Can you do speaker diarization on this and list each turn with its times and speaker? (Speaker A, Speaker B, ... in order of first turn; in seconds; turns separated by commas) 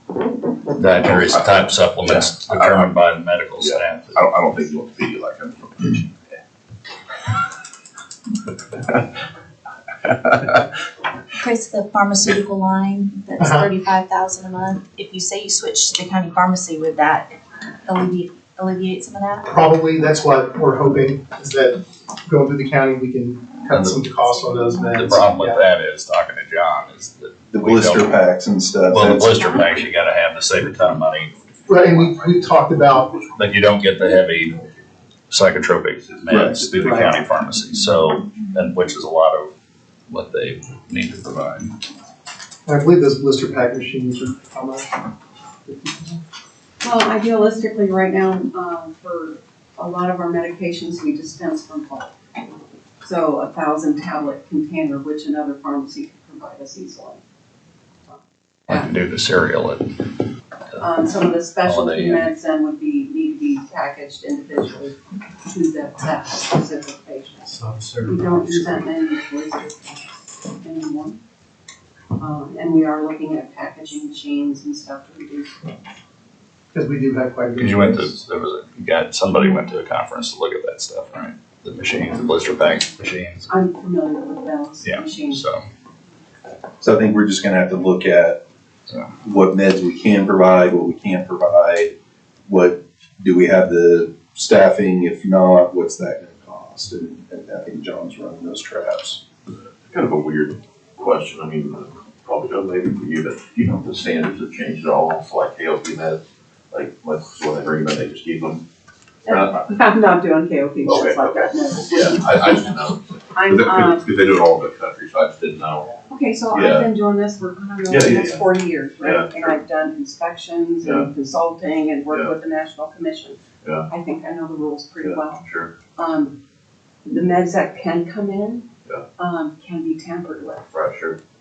Speaker A: 0.8-4.2, Speaker B: 1.1-1.5, Speaker B: 2.0-2.9, Speaker B: 3.6-6.4, Speaker B: 10.0-10.6, Speaker C: 11.4-17.3, Speaker D: 13.4-13.7, Speaker C: 17.8-19.4, Speaker D: 19.5-25.6, Speaker A: 23.7-28.2, Speaker E: 27.5-29.4, Speaker A: 28.9-31.3, Speaker D: 31.7-33.1, Speaker B: 31.8-33.4, Speaker A: 33.4-34.6, Speaker A: 35.3-39.5, Speaker E: 36.3-37.1, Speaker A: 40.1-41.7, Speaker D: 42.6-45.0, Speaker D: 45.7-46.1, Speaker F: 46.8-52.1, Speaker F: 53.0-57.2, Speaker A: 58.7-60.1, Speaker F: 60.8-71.2, Speaker A: 61.6-62.3, Speaker D: 67.5-68.8, Speaker F: 72.2-75.7, Speaker D: 76.7-78.2, Speaker A: 77.6-83.5, Speaker F: 83.5-85.4, Speaker A: 84.8-85.6, Speaker E: 86.8-88.4, Speaker E: 89.2-91.9, Speaker E: 92.5-99.2, Speaker B: 99.9-108.6, Speaker F: 109.2-112.7, Speaker B: 109.3-109.7, Speaker B: 110.8-116.9, Speaker F: 113.3-114.0, Speaker F: 116.1-126.4, Speaker B: 117.9-118.5, Speaker B: 119.0-119.6, Speaker B: 120.8-121.1, Speaker B: 123.6-123.9, Speaker B: 125.0-125.8, Speaker F: 127.0-130.7, Speaker B: 130.7-131.2